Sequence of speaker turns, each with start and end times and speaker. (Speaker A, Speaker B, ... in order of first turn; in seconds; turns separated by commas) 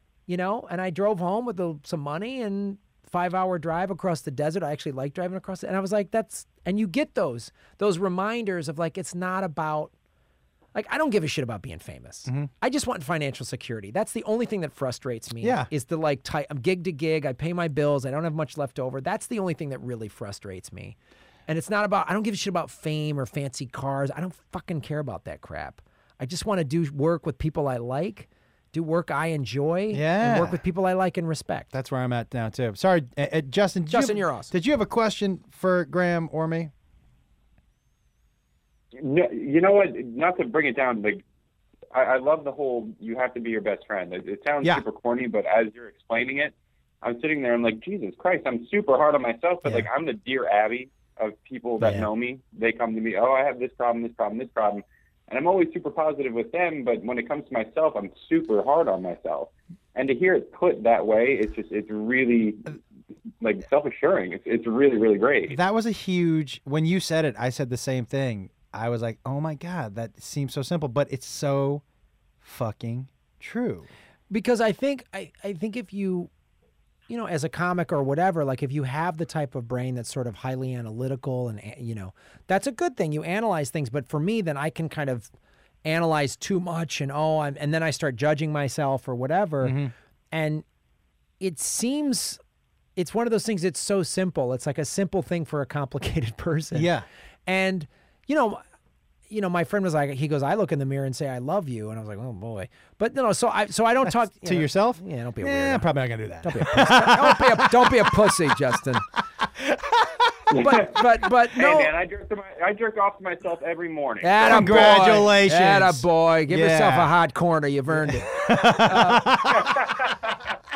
Speaker A: 0.3-9.9, Speaker A: 10.7-20.9, Speaker B: 15.4-15.7, Speaker A: 21.5-31.7, Speaker B: 29.9-30.6, Speaker B: 31.7-36.7, Speaker A: 33.9-34.5, Speaker C: 39.0-41.2, Speaker C: 41.9-62.8, Speaker B: 51.8-52.1, Speaker C: 63.4-65.6, Speaker B: 65.5-71.8, Speaker B: 72.4-73.9, Speaker A: 74.3-76.3, Speaker A: 77.1-85.3, Speaker A: 85.8-89.8, Speaker B: 89.6-89.9, Speaker A: 90.3-90.6, Speaker A: 91.4-92.4, Speaker A: 93.0-96.9, Speaker B: 96.7-97.0, Speaker A: 97.5-98.6, Speaker A: 99.3-105.9, Speaker B: 104.1-108.5, Speaker A: 106.4-109.0, Speaker B: 109.5-110.8, Speaker C: 110.5-115.1, Speaker A: 110.5-111.9, Speaker A: 114.2-119.3, Speaker B: 114.4-117.1, Speaker B: 118.0-120.0, Speaker C: 119.5-120.1